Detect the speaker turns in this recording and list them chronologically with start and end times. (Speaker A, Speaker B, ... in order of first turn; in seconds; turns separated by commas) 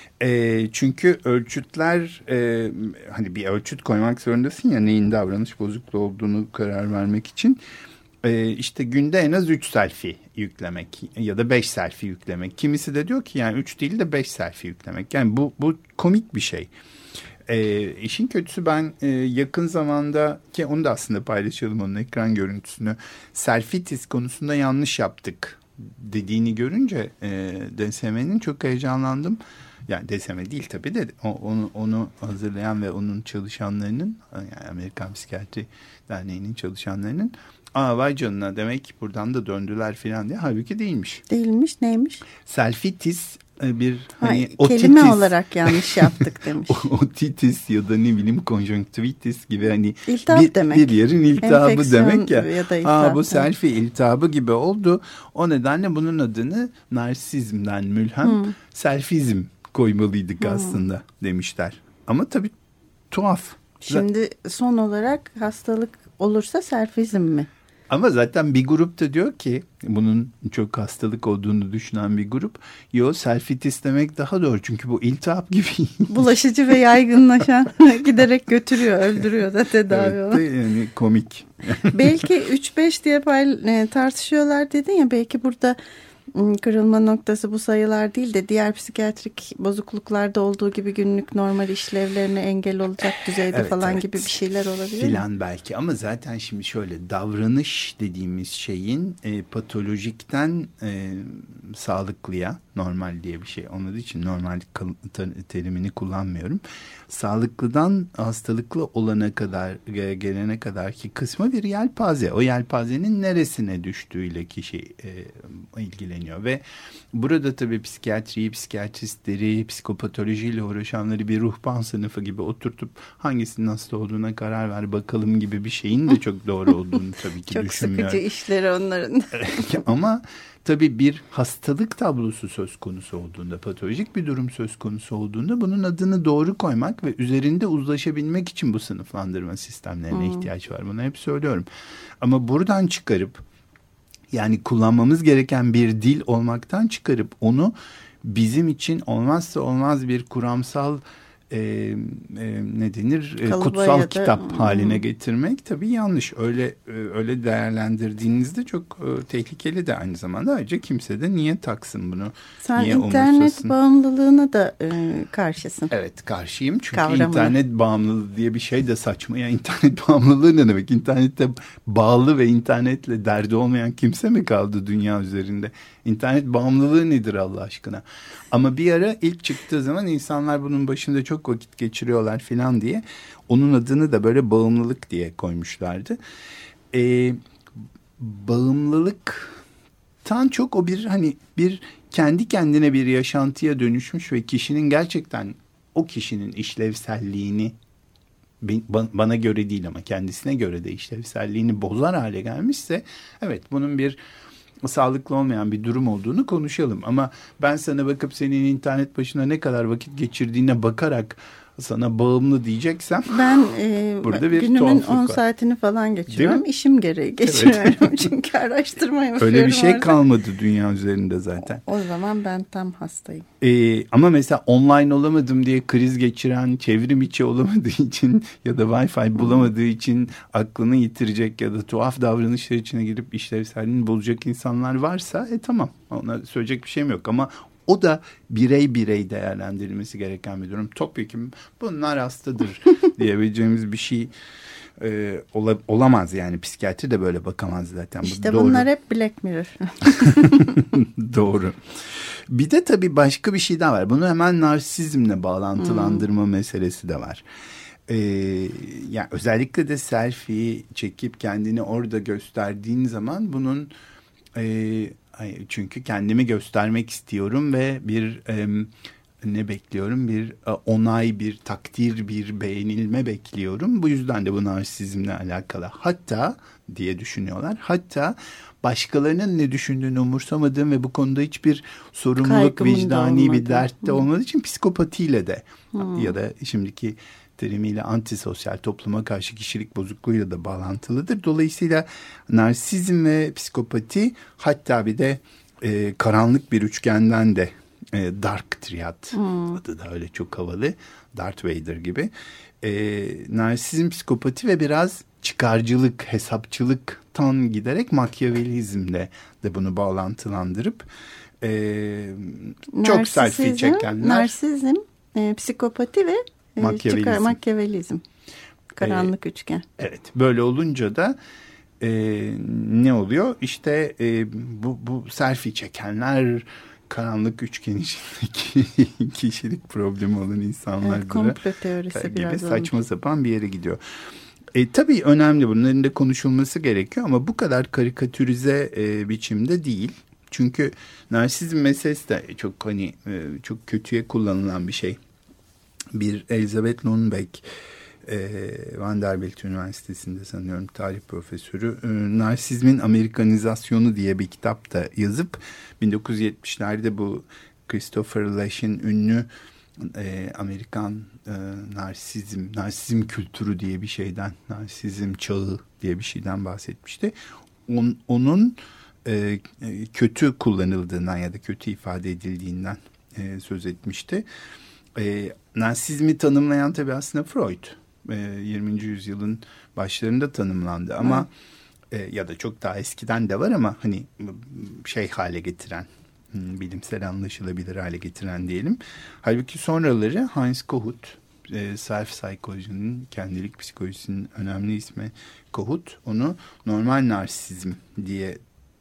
Speaker A: 0.2-7.6, Speaker A: 8.2-16.7, Speaker A: 17.5-41.2, Speaker B: 41.3-42.2, Speaker A: 42.4-46.1, Speaker B: 44.2-46.8, Speaker A: 46.7-62.5, Speaker B: 50.1-53.5, Speaker B: 58.2-58.5, Speaker B: 60.4-60.8, Speaker A: 63.1-64.0, Speaker B: 63.8-67.5, Speaker A: 67.9-76.3, Speaker B: 76.1-80.4, Speaker A: 79.9-82.2, Speaker B: 81.9-85.8, Speaker B: 86.3-95.2, Speaker A: 93.5-94.3, Speaker A: 94.9-128.2, Speaker B: 127.5-129.7, Speaker A: 129.3-141.7, Speaker B: 140.1-140.5, Speaker A: 142.2-143.4, Speaker A: 144.3-163.7, Speaker B: 153.4-155.0, Speaker B: 162.6-165.9, Speaker A: 165.9-186.2, Speaker B: 166.9-167.5, Speaker A: 186.9-187.4, Speaker A: 188.2-189.6, Speaker A: 190.2-197.8, Speaker A: 198.6-204.2, Speaker A: 204.8-213.5, Speaker B: 213.3-220.1, Speaker A: 214.2-215.4, Speaker A: 216.3-216.6, Speaker A: 217.4-218.2, Speaker A: 219.4-221.8, Speaker B: 221.8-223.4, Speaker A: 223.6-244.3, Speaker A: 245.0-248.9, Speaker B: 248.2-250.8, Speaker A: 250.2-257.4, Speaker B: 255.8-256.2, Speaker A: 258.1-263.9, Speaker A: 264.6-268.9, Speaker A: 269.4-311.1, Speaker B: 282.4-284.2, Speaker B: 285.9-286.3, Speaker B: 299.3-299.8, Speaker A: 311.6-314.6, Speaker B: 312.9-318.2, Speaker A: 316.8-317.6, Speaker B: 319.0-319.8, Speaker A: 319.0-319.3, Speaker A: 320.0-321.4, Speaker A: 322.0-331.6, Speaker B: 331.0-332.9, Speaker A: 332.1-334.0, Speaker A: 334.7-345.2, Speaker A: 346.1-347.6, Speaker A: 348.2-359.5, Speaker A: 360.0-367.3, Speaker A: 367.9-374.4, Speaker A: 375.1-381.5, Speaker B: 381.2-381.5, Speaker A: 382.1-398.6